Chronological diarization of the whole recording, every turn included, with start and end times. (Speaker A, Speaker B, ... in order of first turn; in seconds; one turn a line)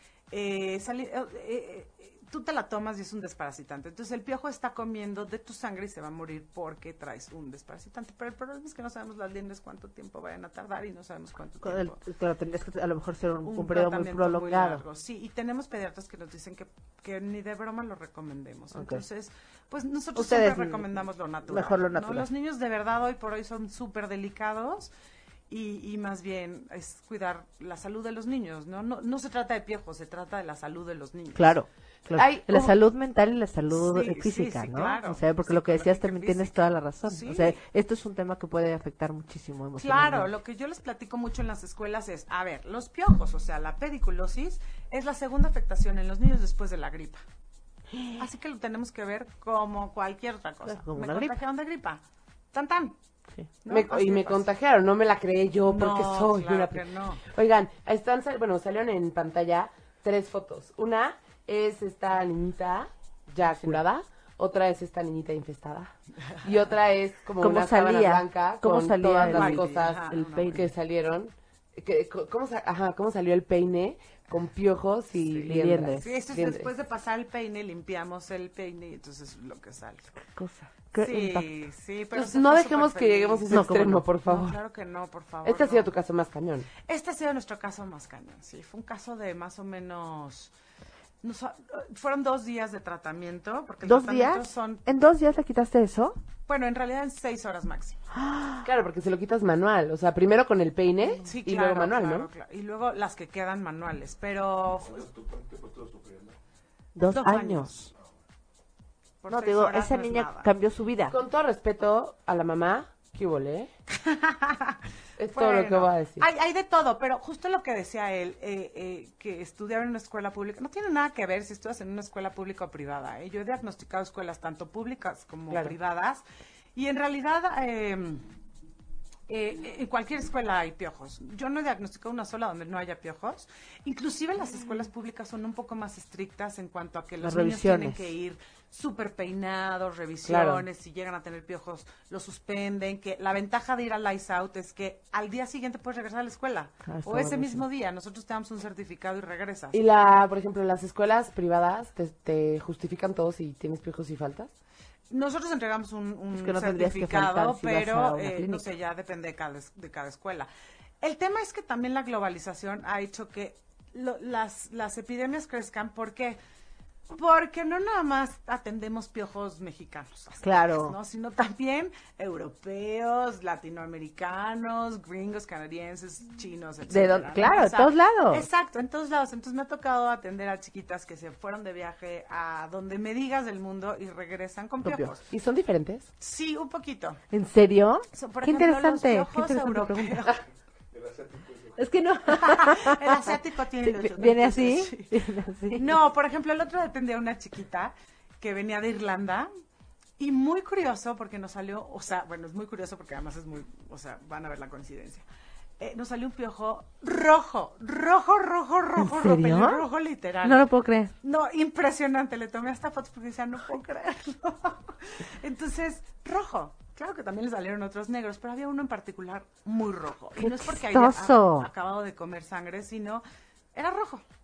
Speaker A: 0.3-12.0
Speaker B: 11.6-14.8
Speaker A: 13.4-24.9
Speaker B: 18.8-19.0
Speaker B: 20.1-22.3
Speaker A: 25.5-31.5
Speaker B: 31.4-40.3
Speaker C: 32.1-32.7
Speaker A: 33.7-37.6
Speaker A: 39.8-47.2
Speaker A: 48.2-52.0
Speaker B: 50.7-51.4
Speaker A: 52.5-53.0
Speaker A: 53.6-54.5
Speaker C: 53.7-76.7
Speaker A: 55.7-57.2
Speaker B: 67.4-70.6
Speaker A: 69.2-70.6
Speaker B: 75.4-76.1
Speaker A: 76.0-80.1
Speaker B: 80.3-81.5
Speaker A: 81.0-83.6
Speaker C: 82.1-84.6
Speaker B: 83.5-84.0
Speaker A: 84.2-85.9
Speaker C: 85.4-86.7
Speaker A: 86.9-90.5
Speaker A: 91.2-94.8
Speaker B: 93.8-96.2
Speaker A: 96.5-98.0
Speaker B: 98.1-98.7
Speaker C: 98.6-102.3
Speaker A: 101.3-105.0
Speaker D: 104.8-106.4
Speaker B: 107.0-107.9
Speaker A: 107.1-107.9
Speaker A: 109.2-110.5
Speaker B: 109.3-111.2
Speaker C: 111.1-113.7
Speaker A: 114.0-114.8
Speaker C: 115.2-116.3
Speaker A: 115.3-126.2
Speaker A: 126.8-128.2
Speaker A: 129.3-149.8
Speaker B: 137.2-138.0
Speaker C: 140.2-140.7
Speaker B: 146.9-147.6
Speaker C: 149.7-154.5
Speaker A: 155.1-160.5
Speaker B: 156.3-158.7
Speaker A: 161.0-166.4
Speaker A: 167.1-185.2
Speaker B: 170.4-171.0
Speaker B: 176.9-178.5
Speaker B: 184.8-185.2
Speaker C: 185.3-186.1
Speaker A: 186.2-187.2
Speaker B: 187.3-190.3
Speaker A: 188.1-190.4
Speaker D: 190.9-191.8
Speaker B: 191.8-193.3
Speaker A: 192.3-195.1
Speaker B: 193.8-195.9
Speaker A: 195.7-199.5
Speaker A: 200.2-205.2
Speaker A: 205.8-210.7
Speaker B: 209.0-209.8
Speaker B: 210.4-211.1
Speaker A: 211.2-223.2
Speaker B: 220.4-221.7
Speaker A: 223.7-224.2